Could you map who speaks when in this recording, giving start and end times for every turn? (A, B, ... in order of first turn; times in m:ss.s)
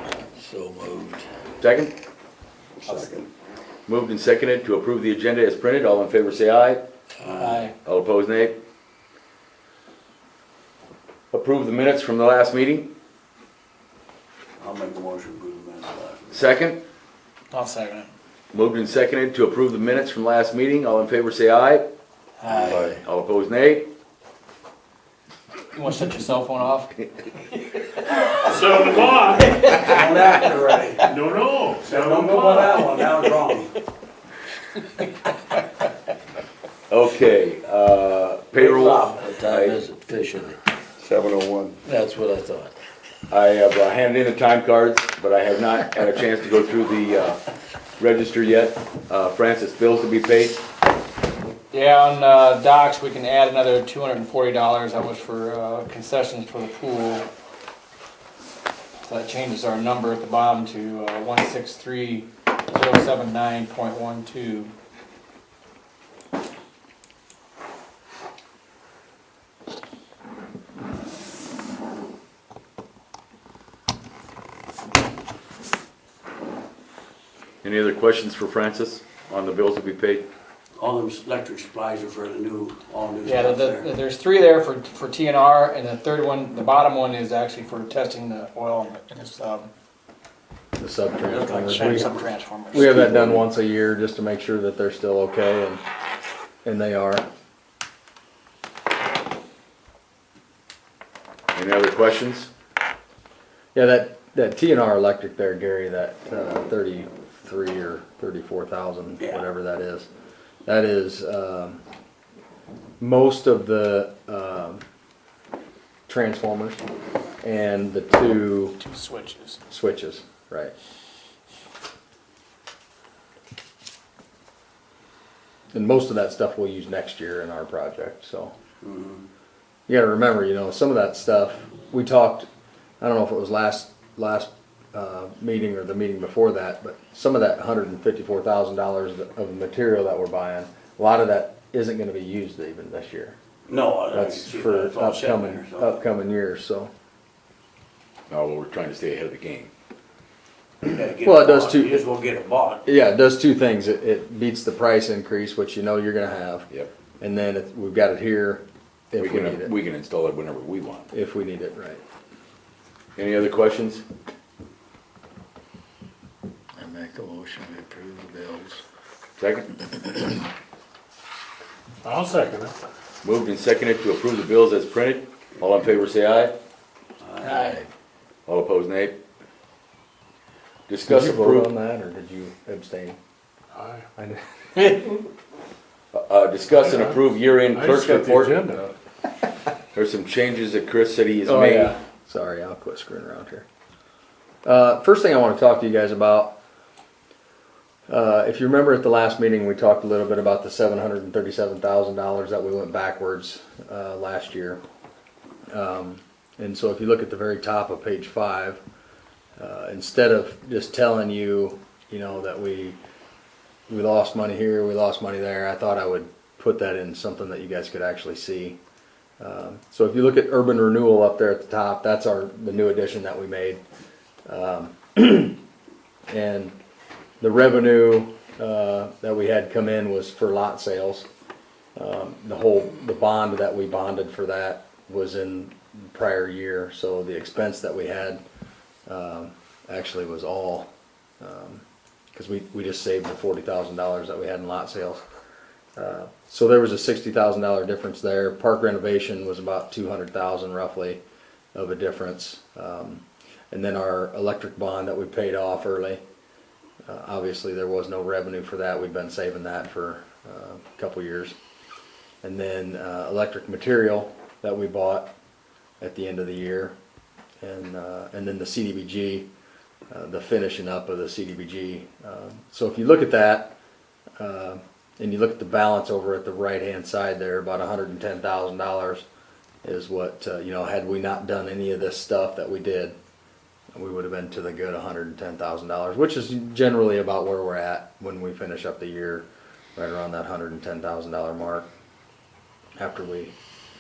0:00.3-0:01.3 A
0:01.6-0:01.9 B
0:02.8-0:03.3 C
0:03.9-0:06.8 B
0:07.3-0:07.6 C
0:07.4-0:07.7 D
0:07.8-0:08.6 B
0:11.3-0:12.9 B
0:14.6-0:16.4 C
0:16.3-0:16.8 B
0:17.5-0:18.1 D
0:18.5-0:21.9 B
0:22.4-0:22.7 D
0:22.5-0:23.0 C
0:22.5-0:23.9 B
0:25.7-0:29.9 D
0:28.4-0:29.8 E
0:29.8-0:31.1 C
0:31.0-0:32.9 E
0:31.8-0:33.7 C
0:36.9-0:39.8 B
0:38.6-0:40.6 A
0:41.0-0:41.7 C
0:41.7-0:42.7 A
0:43.3-0:47.4 B
0:48.0-0:50.6 B
0:51.7-0:57.3 D
0:59.0-1:04.7 D
1:17.6-1:20.3 B
1:20.8-1:23.9 C
1:23.2-1:29.7 D
1:30.8-1:32.1 F
1:31.3-1:33.4 C
1:31.4-1:33.2 D
1:32.7-1:35.8 F
1:36.6-1:37.2 F
1:41.5-1:42.5 B
1:43.7-1:50.1 F
1:50.6-1:51.8 F
1:53.0-1:54.8 F
1:56.1-1:56.8 F
1:57.4-1:58.8 F
1:58.8-1:59.6 D
1:59.7-2:00.7 F
2:05.7-2:08.5 F
2:08.8-2:09.2 C
2:09.9-2:12.5 F
2:13.0-2:23.4 F
2:23.7-2:26.0 C
2:24.1-2:26.9 F
2:28.3-2:29.7 B
2:30.8-2:32.8 C
2:31.2-2:32.0 F
2:32.8-2:36.7 F
2:37.2-2:39.7 F
2:39.2-2:41.1 B
2:41.1-2:42.0 F
2:43.2-2:44.0 B
2:46.8-2:48.8 A
2:49.4-2:49.8 B
2:52.0-2:52.7 E
2:53.2-2:56.5 B
2:57.2-2:57.7 C
2:57.4-2:57.8 D
2:57.5-2:57.8 A
2:58.5-2:59.2 B
3:00.9-3:01.7 B
3:01.0-3:03.2 F
3:03.7-3:04.0 E
3:04.8-3:05.2 D
3:06.1-3:08.8 B
3:06.8-3:08.9 E
3:09.9-3:11.9 B
3:11.4-3:13.6 F
3:14.6-3:16.6 F
3:18.1-3:24.8 F
3:25.7-3:28.8 F
3:29.6-3:33.0 F
3:33.9-3:38.8 F
3:39.4-3:43.8 F
3:44.5-3:45.6 F
3:46.3-3:46.7 F
3:47.4-3:51.3 F
3:52.0-3:58.4 F
3:59.1-4:00.9 F
4:01.4-4:01.8 F
4:02.3-4:05.2 F
4:06.0-4:11.2 F
4:11.7-4:16.2 F
4:17.0-4:21.6 F
4:22.4-4:25.3 F
4:26.0-4:26.9 F
4:27.6-4:29.5 F
4:30.1-4:33.7 F
4:34.4-4:39.2 F
4:39.8-4:43.2 F
4:43.9-4:51.9 F
4:53.0-4:53.5 F